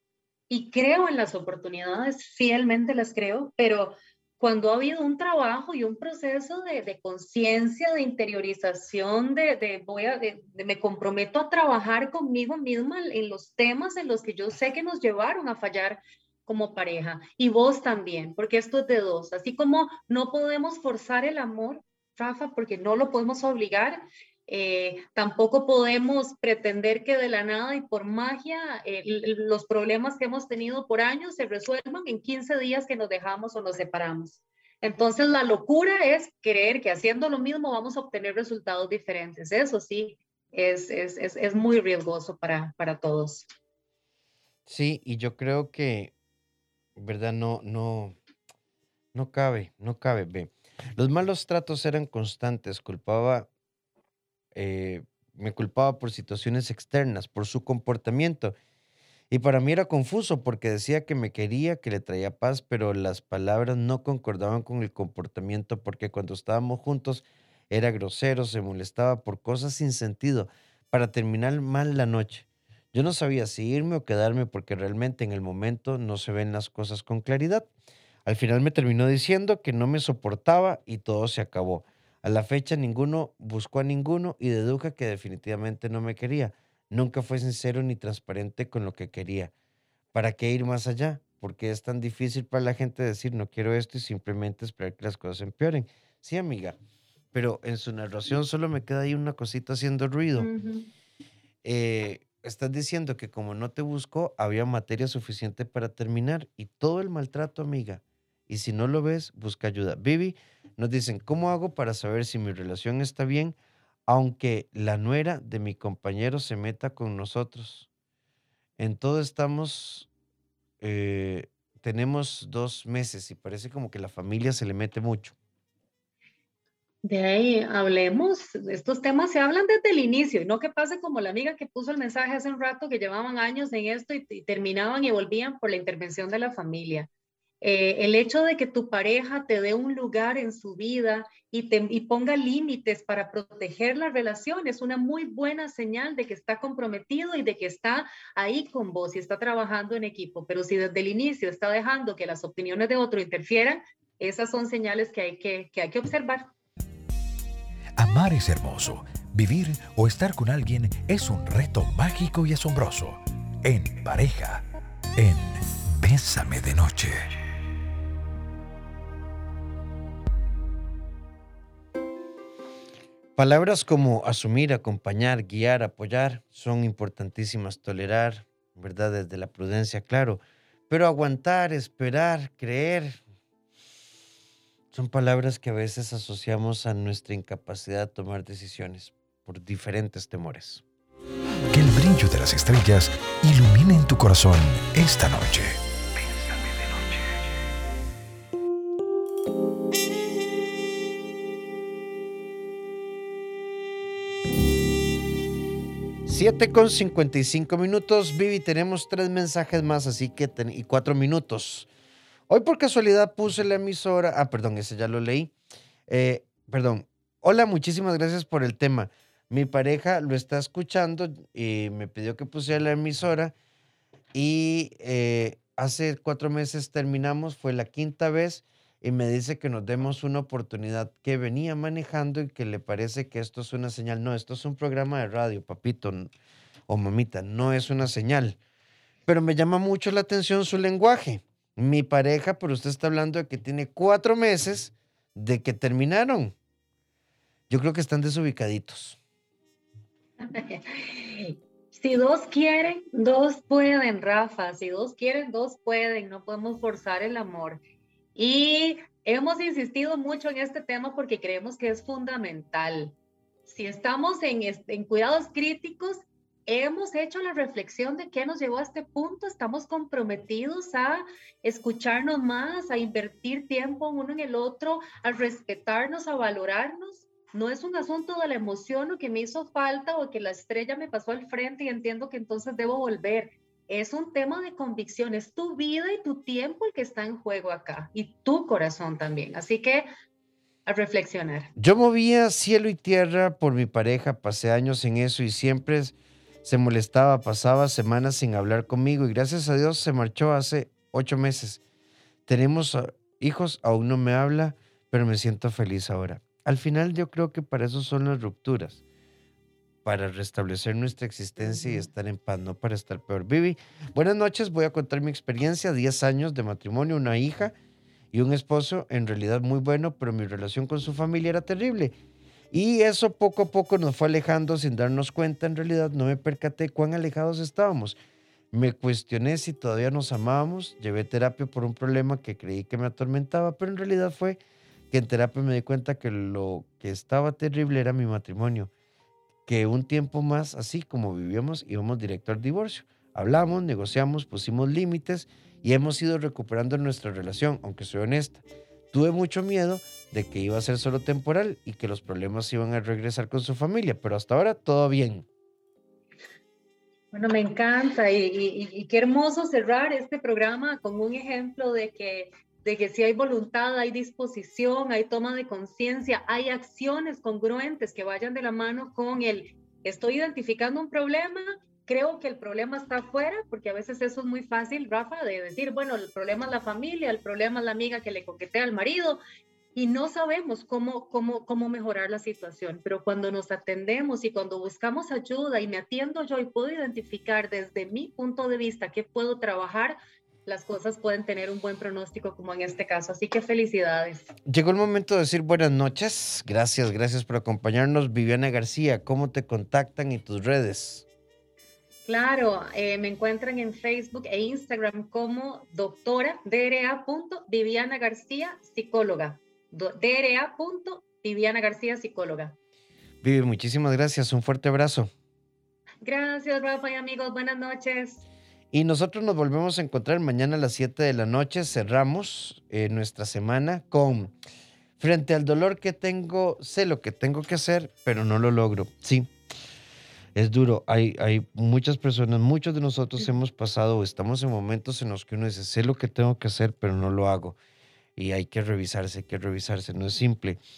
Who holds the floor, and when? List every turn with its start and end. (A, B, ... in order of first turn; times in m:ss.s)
0:00.5-0:43.5 A
0:44.6-0:46.1 B
0:47.0-0:48.2 B
0:49.1-0:53.5 B
0:54.5-0:58.5 B
0:59.3-1:17.7 B
1:18.2-1:29.5 B
1:30.1-1:36.8 B
1:37.3-1:40.5 B
1:40.4-1:40.9 A
1:41.6-1:57.9 B
1:58.8-2:00.1 B
2:00.8-2:05.3 B
2:07.0-2:17.1 A
2:17.6-2:36.5 A
2:38.0-2:44.6 C
2:45.2-2:47.3 C
2:53.4-3:03.2 B
3:04.9-3:10.8 B
3:11.7-3:17.2 C
3:26.2-3:31.9 B
3:32.5-3:35.5 B
3:36.1-3:43.5 B
3:44.3-3:56.3 B
3:56.9-3:58.6 B
3:59.2-4:06.5 B
4:07.7-4:09.2 B
4:10.4-4:17.8 A
4:18.4-4:50.1 A
4:50.8-4:51.7 A
4:51.8-5:01.8 B
5:02.5-5:09.0 B
5:10.0-5:17.7 B
5:11.7-5:12.0 A
5:18.3-5:22.1 B
5:22.7-5:28.2 B
5:28.7-5:34.6 B
5:35.1-5:38.9 B
5:39.7-5:55.4 B
5:57.3-6:19.4 A
6:19.9-6:34.5 A
6:34.6-6:41.2 B
6:42.3-6:52.8 A
6:53.4-6:55.3 B
6:56.2-6:58.4 A
6:58.9-7:04.5 B
7:05.2-7:09.5 B
7:10.5-7:17.8 B
7:18.4-7:20.8 B